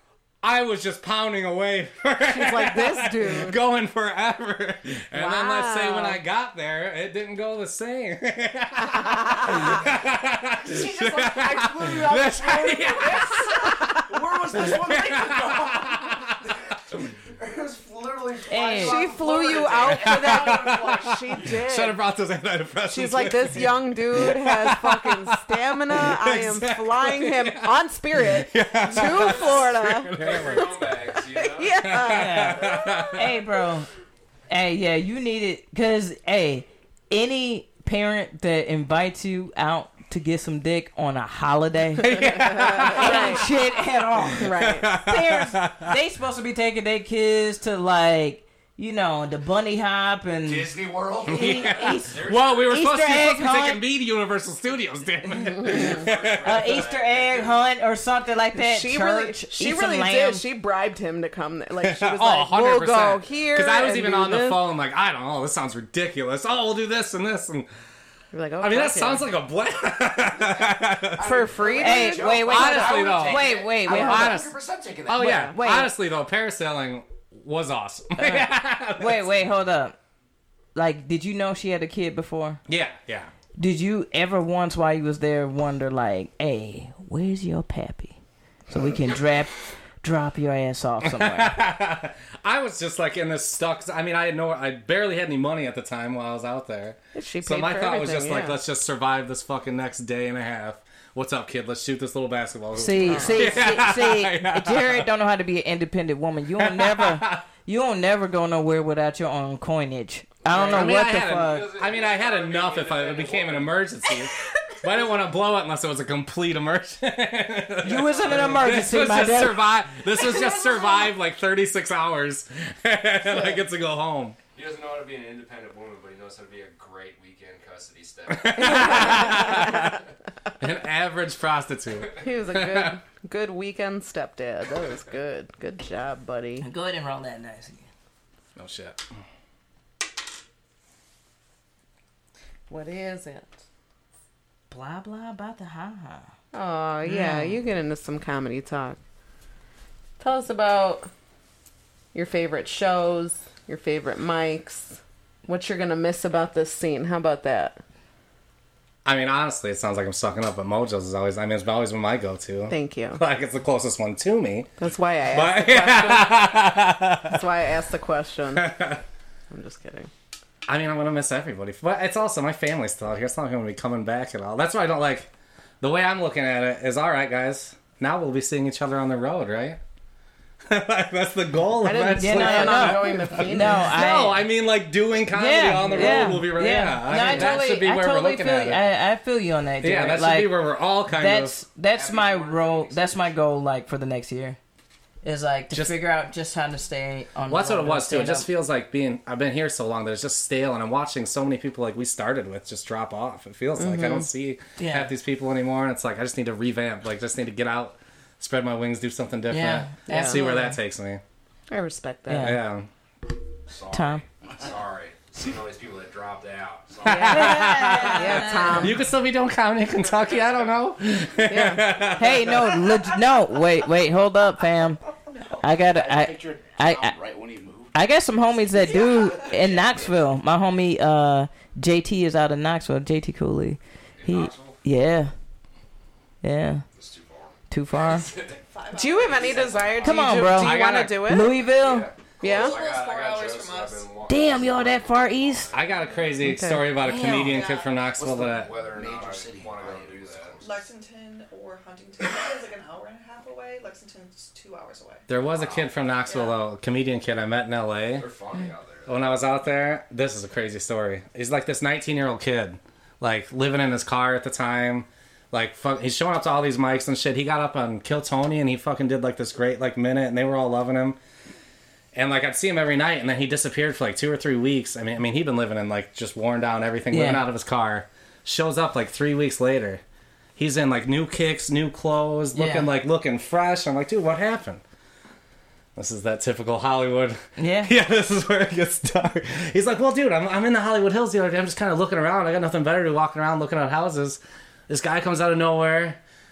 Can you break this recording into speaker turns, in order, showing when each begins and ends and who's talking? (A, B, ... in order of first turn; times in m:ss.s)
0:00.4-0:16.5 A
0:02.3-0:03.6 B
0:05.1-0:06.2 B
0:09.1-0:09.7 B
0:10.6-0:21.5 C
0:13.7-0:14.0 B
0:18.5-0:19.1 D
0:18.7-0:22.0 B
0:19.7-0:30.8 A
0:22.9-0:33.2 B
0:29.1-0:31.9 E
0:31.8-0:33.4 A
0:32.0-0:33.9 D
0:34.5-0:42.1 D
0:42.0-0:43.5 A
0:42.2-0:43.4 B
0:42.9-0:50.7 D
0:44.4-0:45.0 B
0:44.4-0:45.9 A
0:50.4-0:51.8 C
0:51.2-0:53.8 D
0:51.3-0:56.7 A
0:52.0-0:52.8 E
0:55.6-0:57.6 E
0:56.4-1:00.4 D
0:58.6-1:04.6 B
1:01.8-1:07.7 A
1:08.3-1:09.3 B
1:08.6-1:11.2 A
1:11.1-1:15.3 C
1:11.2-1:12.6 B
1:11.8-1:14.4 D
1:12.5-1:14.5 A
1:15.1-1:19.3 A
1:15.2-1:15.6 B
1:15.2-1:15.9 D
1:18.2-1:20.0 D
1:20.8-1:22.6 D
1:22.7-1:23.3 A
1:23.6-1:28.2 D
1:28.7-1:31.6 D
1:31.0-1:45.1 A
1:37.2-1:38.6 B
1:42.8-1:51.7 D
1:43.0-1:43.7 B
1:46.6-1:47.4 A
1:50.5-2:04.4 A
1:50.9-1:53.8 E
1:57.8-1:59.6 D
2:00.3-2:01.0 F
2:03.3-2:03.5 B
2:04.6-2:09.2 E
2:08.3-2:10.0 A
2:08.6-2:09.9 B
2:10.6-2:13.0 A
2:12.2-2:16.7 B
2:16.6-2:17.9 D
2:18.6-2:19.0 A
2:22.7-2:23.5 B
2:24.7-2:26.3 D
2:26.5-2:29.0 B
2:27.0-2:27.6 D
2:30.2-2:31.1 B
2:32.1-2:37.8 B
2:39.0-2:44.7 A
2:42.7-2:43.2 B
2:44.8-2:46.5 B
2:45.3-2:47.4 A
2:47.3-2:48.8 B
2:48.6-2:49.0 A
2:49.5-2:50.1 B
2:50.7-2:59.8 A
3:00.7-3:08.8 A
3:01.8-3:03.9 B
3:02.2-3:04.4 D
3:05.3-3:14.6 D
3:06.0-3:06.3 B
3:07.1-3:07.5 B
3:09.8-3:11.6 A
3:11.9-3:13.4 E
3:15.2-3:18.5 D
3:15.7-3:16.0 A
3:17.5-3:31.2 A
3:23.8-3:24.3 B
3:24.8-3:25.1 D
3:29.5-3:30.8 D
3:30.1-3:30.4 B
3:31.7-3:32.6 B
3:32.3-3:32.6 D
3:32.4-3:32.9 A
3:33.7-3:37.6 E
3:33.9-3:34.2 D
3:37.0-3:42.7 A
3:37.1-3:39.1 B
3:37.2-3:39.0 D
3:40.1-3:40.6 E
3:41.5-3:42.0 B
3:42.2-3:45.0 D
3:45.3-3:45.6 F
3:45.6-3:47.2 D
3:45.8-3:48.0 C
3:47.9-3:55.3 D
3:48.9-3:49.5 F
3:54.2-3:54.8 E
3:56.4-3:56.8 D
3:57.0-3:58.6 E
3:57.7-3:58.3 D
3:58.6-4:00.5 F
3:58.9-4:01.6 B
3:59.3-4:00.1 E
4:00.0-4:02.1 D
4:00.5-4:01.5 A
4:01.7-4:06.1 E
4:02.4-4:02.8 B
4:02.4-4:04.1 F
4:04.3-4:05.7 D
4:05.7-4:08.8 A
4:05.9-4:06.3 F
4:06.4-4:06.9 B
4:07.0-4:07.6 D
4:07.4-4:08.0 F
4:08.2-4:10.9 C
4:08.4-4:10.6 E
4:10.6-4:15.3 F
4:15.3-4:18.3 A
4:16.2-4:16.6 F
4:18.2-4:19.4 E
4:19.1-4:31.2 A
4:32.1-4:40.0 A
4:37.1-4:37.4 D
4:40.6-4:44.8 A
4:42.6-4:42.9 D
4:46.0-4:56.2 A
4:47.6-4:47.9 D